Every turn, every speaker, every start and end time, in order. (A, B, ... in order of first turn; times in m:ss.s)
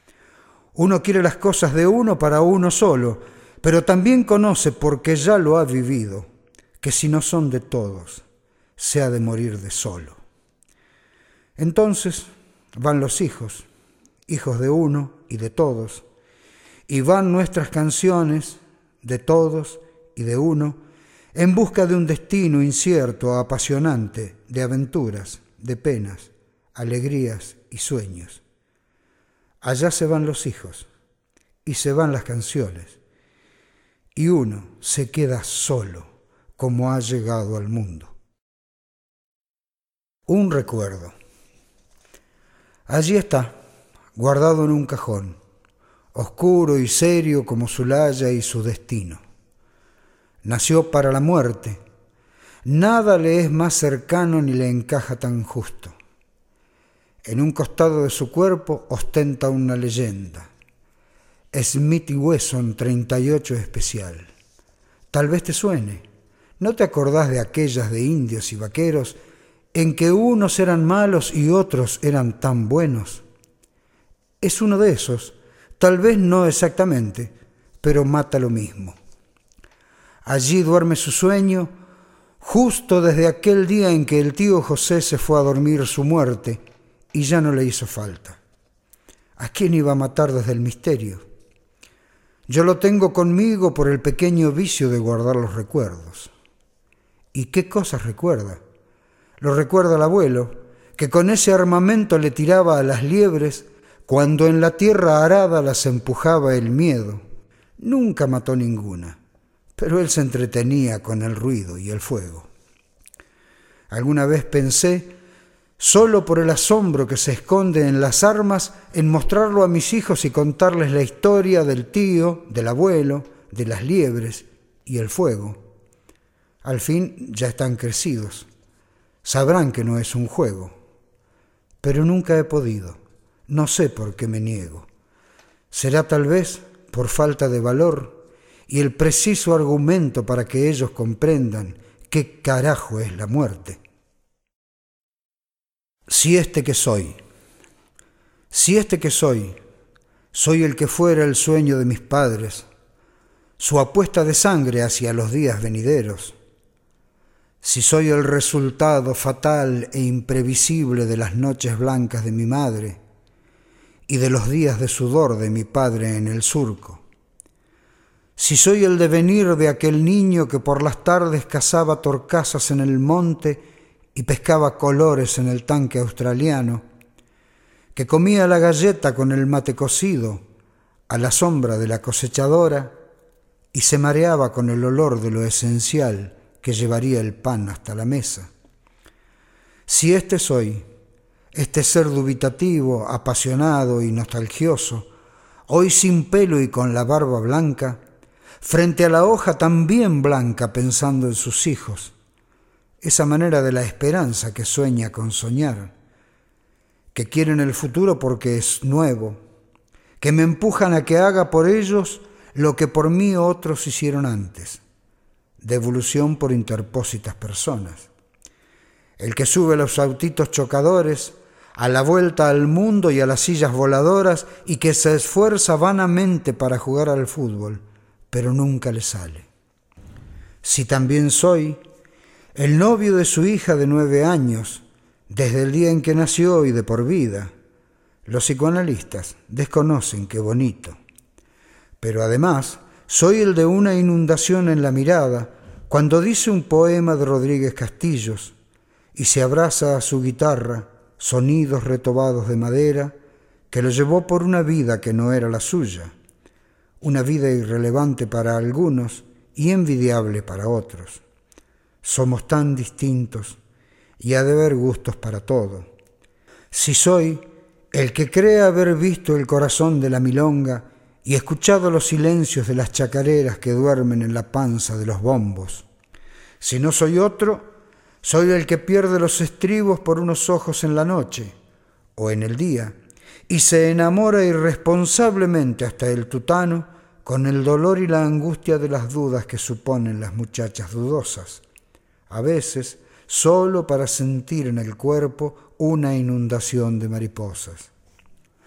0:00.7-0:06.3 A
0:06.8-0:08.2 A
0:08.8-0:10.2 A
0:11.6-0:13.7 A
0:14.3-0:16.0 A
0:16.9-0:20.8 A
0:21.3-0:28.4 A
0:29.6-0:30.9 A
0:31.6-0:33.0 A
0:34.1-0:38.1 A
0:40.3-0:41.1 A
0:42.9-0:43.5 A
0:44.2-0:45.4 A
0:46.1-0:49.2 A
0:50.4-0:51.8 A
0:52.6-0:55.9 A
0:57.2-1:00.5 A
1:01.5-1:04.3 A
1:05.1-1:06.0 A
1:06.6-1:09.2 A
1:09.7-1:13.2 A
1:14.4-1:19.0 A
1:20.2-1:21.7 A
1:22.4-1:26.6 A
1:27.1-1:28.4 A
1:29.4-1:31.2 A
1:32.5-1:36.3 A
1:37.3-1:38.6 A
1:39.4-1:47.2 A
1:47.8-1:49.2 A
1:49.8-1:52.5 A
1:53.9-1:55.1 A
1:55.8-2:05.6 A
2:06.6-2:08.5 A
2:09.2-2:10.7 A
2:11.8-2:14.9 A
2:15.7-2:23.8 A
2:26.1-2:27.2 A
2:28.5-2:29.6 A
2:30.3-2:32.6 A
2:33.6-2:36.4 A
2:37.6-2:43.0 A
2:44.1-2:47.0 A
2:48.4-2:53.6 A
2:54.1-2:56.8 A
2:57.9-3:00.4 A
3:01.1-3:02.9 A
3:03.7-3:08.5 A
3:09.9-3:10.8 A
3:11.5-3:15.1 A
3:15.7-3:18.0 A
3:18.6-3:22.1 A
3:23.0-3:25.9 A
3:27.1-3:29.4 A
3:30.2-3:34.8 A
3:35.6-3:38.1 A
3:39.2-3:49.5 A
3:50.6-3:51.8 A
3:52.5-3:57.5 A
3:58.2-4:01.0 A
4:02.0-4:08.5 A
4:09.1-4:13.1 A
4:13.7-4:16.1 A
4:17.0-4:21.2 A
4:22.0-4:23.6 A
4:24.2-4:25.9 A
4:26.7-4:35.8 A
4:36.6-4:37.7 A
4:38.2-4:41.5 A
4:42.2-4:43.0 A
4:43.5-4:51.6 A
4:52.3-4:57.9 A